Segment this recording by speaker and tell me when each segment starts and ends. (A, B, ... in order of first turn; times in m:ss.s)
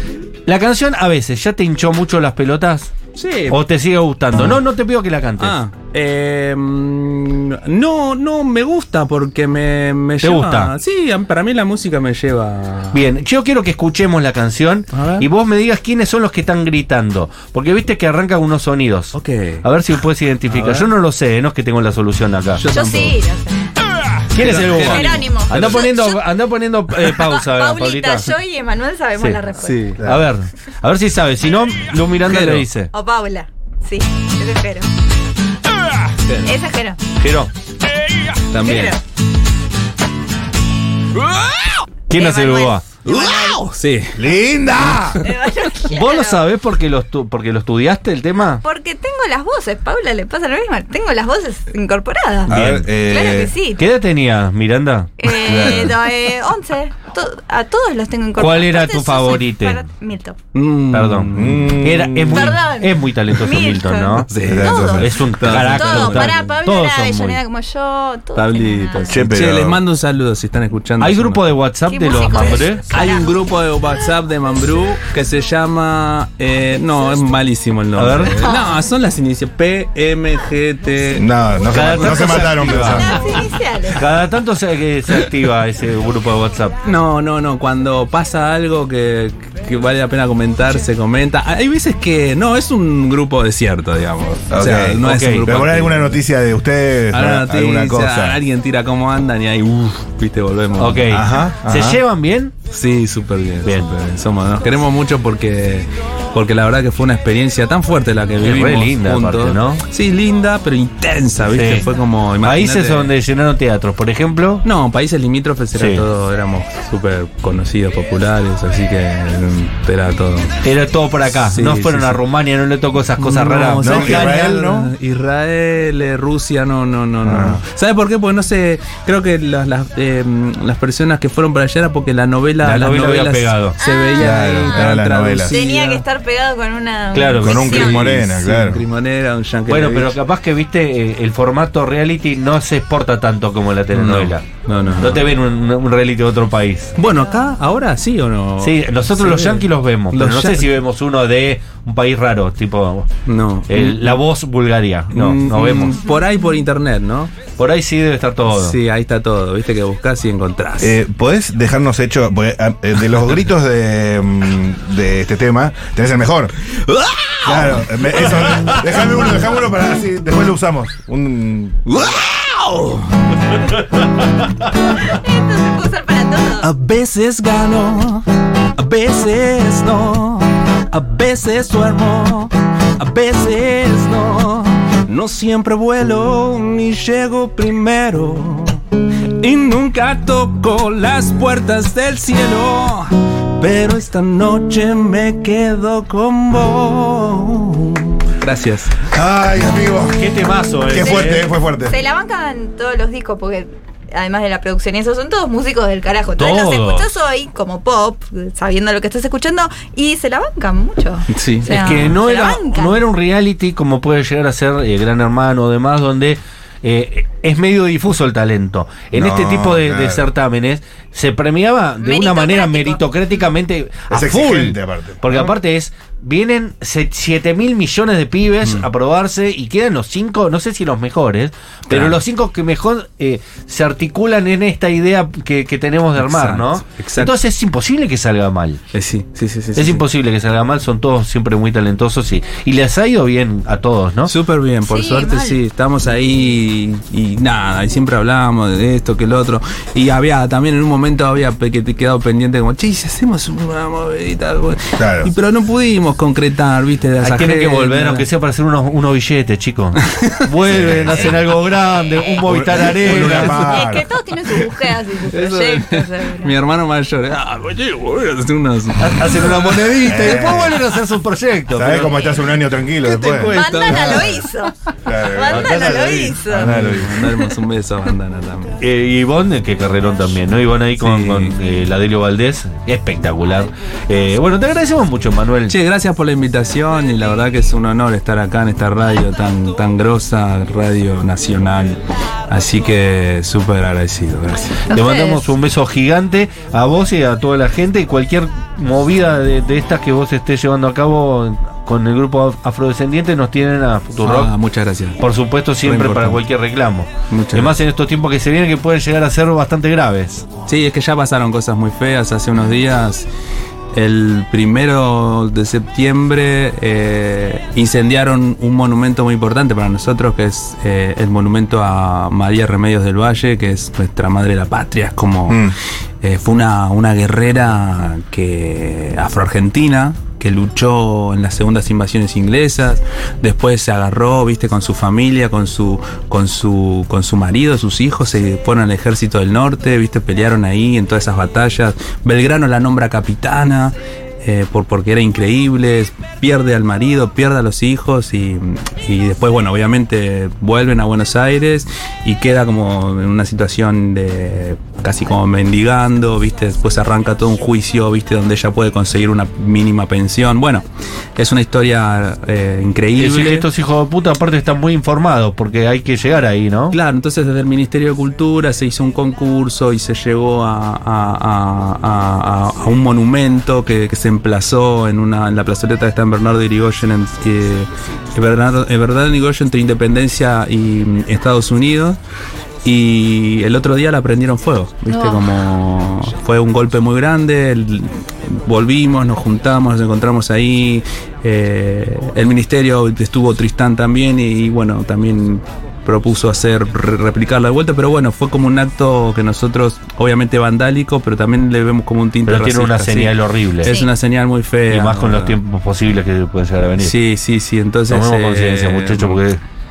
0:00.5-0:02.9 A
0:03.2-0:03.6 B
0:03.5-0:05.6 A
0:05.4-0:13.0 B
0:10.2-0:10.7 A
0:12.9-0:22.6 A
0:14.9-0:15.3 B
0:19.1-0:19.7 B
0:20.5-0:20.9 B
0:22.6-0:23.2 B
0:22.7-0:23.8 C
0:24.3-0:28.4 A
0:24.4-0:25.8 B
0:24.5-0:26.2 C
0:26.9-0:29.8 C
0:29.6-0:30.0 B
0:30.0-0:32.9 A
0:30.0-0:30.3 D
0:32.2-0:32.7 B
0:32.9-0:34.9 C
0:36.3-0:36.6 B
0:36.4-0:37.0 C
0:37.2-0:37.5 A
0:38.5-0:39.0 B
0:38.6-0:39.0 C
0:41.4-0:41.6 B
0:42.1-0:42.9 A
0:42.2-0:43.6 C
0:43.0-0:44.2 B
0:44.2-0:45.2 D
0:45.2-0:46.4 C
0:45.9-0:48.6 A
0:48.6-0:53.8 C
0:52.5-0:52.9 B
0:52.5-0:53.5 D
0:53.8-0:55.3 A
0:55.2-1:00.4 C
0:55.4-0:56.0 D
0:58.4-0:59.8 A
1:00.5-1:01.9 B
1:00.9-1:07.4 A
1:01.3-1:02.6 D
1:02.3-1:09.3 C
1:04.3-1:06.4 B
1:04.4-1:05.2 D
1:08.4-1:11.5 B
1:09.1-1:09.8 D
1:11.0-1:12.9 A
1:11.9-1:13.4 C
1:12.9-1:21.3 B
1:18.0-1:18.4 A
1:18.2-1:18.8 C
1:21.1-1:23.3 D
1:21.7-1:23.3 A
1:22.9-1:24.1 C
1:23.9-1:26.8 A
1:26.8-1:36.2 B
1:34.5-1:38.4 D
1:35.0-1:35.6 A
1:37.1-1:41.2 B
1:40.8-1:42.5 A
1:41.1-1:42.0 D
1:42.7-1:53.1 B
1:43.6-1:43.9 A
1:48.4-1:49.8 A
1:51.5-1:51.9 A
1:52.4-1:54.6 A
1:54.6-2:00.5 B
1:55.8-1:56.1 A
2:00.6-2:04.4 A
2:01.5-2:02.2 B
2:03.2-2:16.0 B
2:03.8-2:04.9 D
2:07.2-2:07.6 D
2:12.6-2:13.8 A
2:13.8-2:14.9 C
2:14.2-2:15.6 D
2:15.5-2:18.1 C
2:17.1-2:18.0 A
2:17.4-2:18.8 D
2:17.7-2:20.2 B
2:19.7-2:24.4 A
2:23.9-2:25.3 B
2:25.0-2:26.9 A
2:27.0-2:30.7 B
2:28.6-2:33.1 A
2:33.3-2:34.2 B
2:33.7-2:36.0 A
2:35.1-2:37.3 B
2:37.6-2:38.8 A
2:38.5-2:41.0 B
2:40.8-2:46.5 D
2:46.9-2:47.7 B
2:47.4-2:51.8 D
2:51.9-2:53.1 B
2:54.8-2:56.7 C
2:56.6-3:08.8 B
3:09.4-3:19.0 B
3:19.1-3:20.3 D
3:20.2-3:21.5 A
3:20.9-3:22.0 D
3:21.0-3:33.1 C
3:26.4-3:27.1 A
3:31.3-3:32.2 B
3:31.7-3:58.8 A
3:39.1-3:40.3 D
3:42.0-3:43.0 C
3:44.1-3:45.4 D
3:51.9-3:52.2 B
3:56.2-3:57.4 B
3:58.9-4:00.0 B
3:59.8-4:04.3 A
4:04.3-4:18.3 B
4:04.9-4:05.6 C
4:15.0-4:15.3 D
4:17.2-4:23.9 A
4:20.1-4:20.5 B
4:20.6-4:21.5 D
4:21.1-4:22.5 C
4:22.5-4:24.1 D
4:23.1-4:26.5 C
4:25.2-4:29.9 B
4:29.0-4:32.3 A
4:29.9-4:30.9 D
4:31.7-4:34.4 D
4:33.0-4:34.2 A
4:33.3-4:36.8 C
4:33.5-4:34.4 B
4:35.0-4:37.3 D
4:35.4-4:36.4 A
4:36.6-4:38.8 B
4:38.8-4:45.7 A
4:41.0-4:41.6 B
4:45.7-4:54.9 B
4:54.9-4:55.4 C
4:54.9-5:04.5 A
5:04.2-5:05.2 B
5:05.2-5:10.5 A
5:05.8-5:06.4 B
5:07.3-5:07.7 B
5:10.7-5:13.3 B
5:13.9-6:03.7 B
5:25.5-5:25.8 D
6:03.2-6:07.0 A
6:06.9-6:22.2 B
6:22.8-6:45.6 B
6:25.1-6:25.5 C
6:42.5-6:44.0 A
6:44.9-6:47.2 A
6:47.0-6:49.4 B
6:48.1-6:49.6 A